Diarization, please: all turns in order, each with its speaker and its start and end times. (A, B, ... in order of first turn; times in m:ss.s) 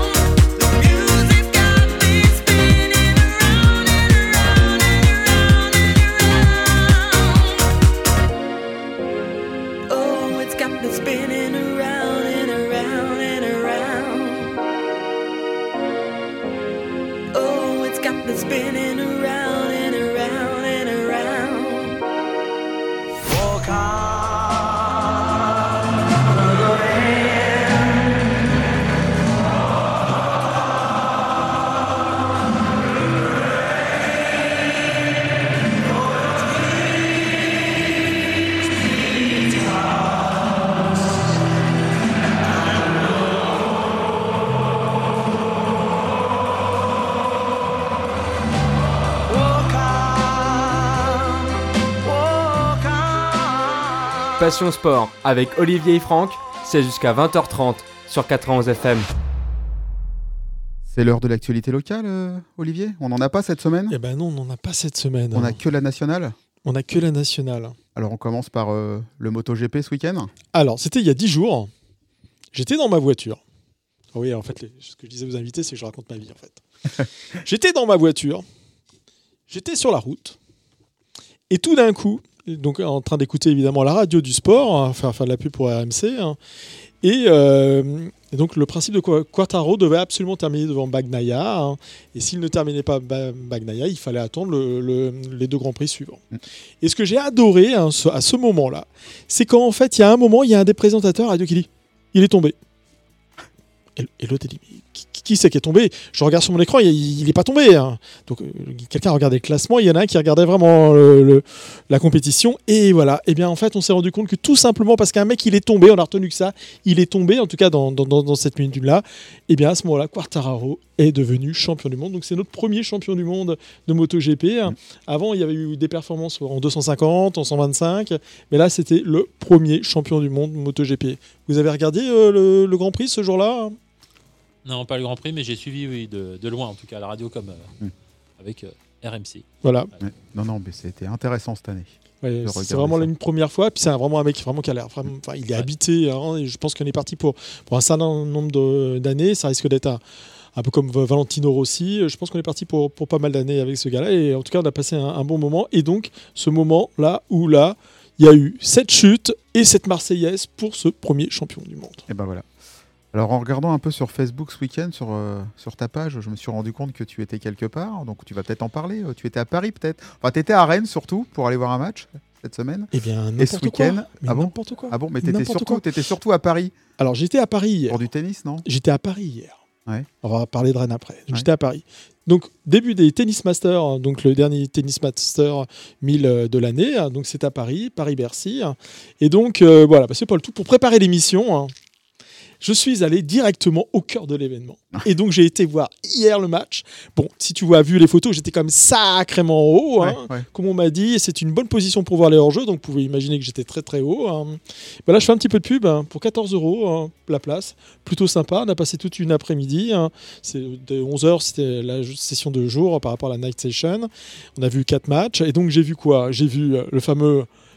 0:00.6-0:06.9 A
0:09.9-0:14.1 A
0:17.4-0:19.3 A
0:20.1-0:21.6 A
0:23.4-0:23.8 A
0:54.4-0:59.1 B
1:00.9-1:04.0 C
1:03.9-1:05.6 D
1:05.3-1:06.4 C
1:06.6-1:07.8 D
1:08.0-1:10.3 C
1:10.5-1:11.7 D
1:12.5-1:13.4 D
1:14.1-1:16.6 D
1:17.4-1:18.4 D
1:19.5-1:20.4 D
1:21.5-1:26.4 D
1:27.0-1:36.2 D
1:36.8-1:42.6 D
1:44.0-2:13.8 D
2:14.6-2:17.7 E
2:18.4-2:19.5 E
2:19.6-2:19.9 D
2:20.0-2:23.1 C
2:22.2-2:30.0 D
2:30.6-2:42.0 D
2:42.1-2:42.5 C
2:43.1-2:56.8 C
2:52.9-2:55.8 D
2:57.0-2:58.0 D
2:57.9-2:58.7 C
2:58.6-2:59.6 D
3:00.2-3:11.7 D
3:12.6-3:37.5 D
3:20.0-3:20.5 C